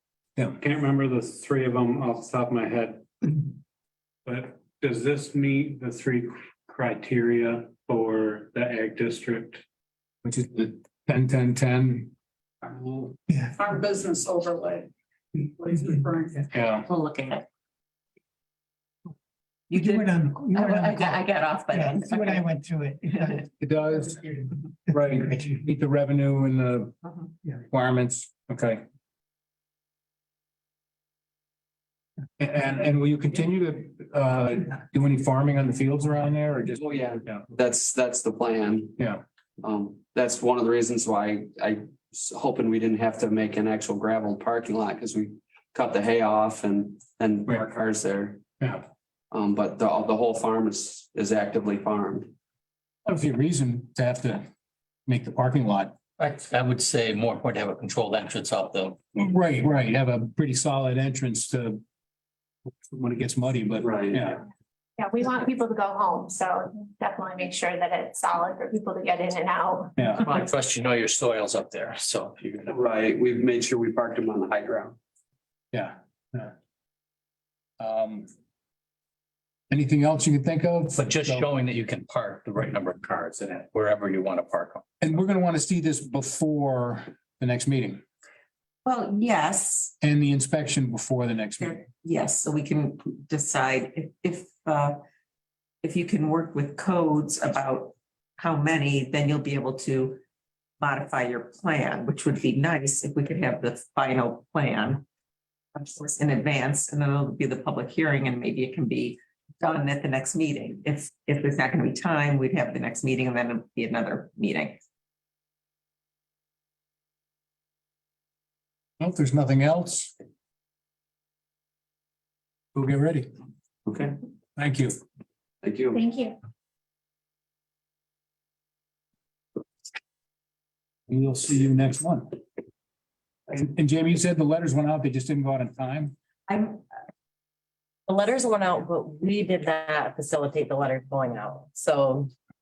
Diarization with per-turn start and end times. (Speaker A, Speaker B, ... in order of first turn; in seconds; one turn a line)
Speaker A: 0.3-0.6
Speaker B: 0.7-2.8
Speaker B: 4.3-9.3
Speaker A: 10.2-12.1
Speaker A: 12.6-13.1
Speaker C: 13.3-13.6
Speaker D: 13.6-14.9
Speaker D: 15.6-16.4
Speaker A: 16.5-16.9
Speaker E: 16.8-17.4
Speaker E: 19.7-22.4
Speaker C: 19.7-25.5
Speaker A: 23.6-24.2
Speaker A: 24.9-27.0
Speaker A: 27.7-28.8
Speaker A: 32.4-37.4
Speaker F: 36.7-39.0
Speaker A: 39.0-39.2
Speaker F: 39.6-48.4
Speaker A: 48.6-48.9
Speaker F: 49.3-52.3
Speaker A: 53.0-54.5
Speaker A: 55.0-56.0
Speaker G: 56.2-59.0
Speaker A: 59.1-61.8
Speaker A: 62.9-64.4
Speaker F: 63.8-64.2
Speaker H: 65.0-69.9
Speaker A: 70.0-70.2
Speaker G: 70.2-72.7
Speaker F: 72.7-75.0
Speaker A: 75.7-76.5
Speaker A: 77.8-78.3
Speaker A: 79.7-81.5
Speaker G: 80.9-84.8
Speaker A: 85.0-88.0
Speaker E: 88.8-89.9
Speaker A: 90.0-91.8
Speaker E: 91.6-95.0
Speaker E: 95.8-100.2
Speaker E: 100.8-105.0
Speaker E: 105.7-114.8
Speaker A: 119.0-120.1
Speaker A: 122.7-123.3
Speaker F: 123.9-124.1
Speaker A: 124.6-125.0
Speaker F: 125.6-126.0
Speaker H: 125.9-126.3
Speaker A: 131.1-132.3
Speaker A: 133.5-136.1
Speaker E: 136.5-136.8
Speaker I: 138.1-142.3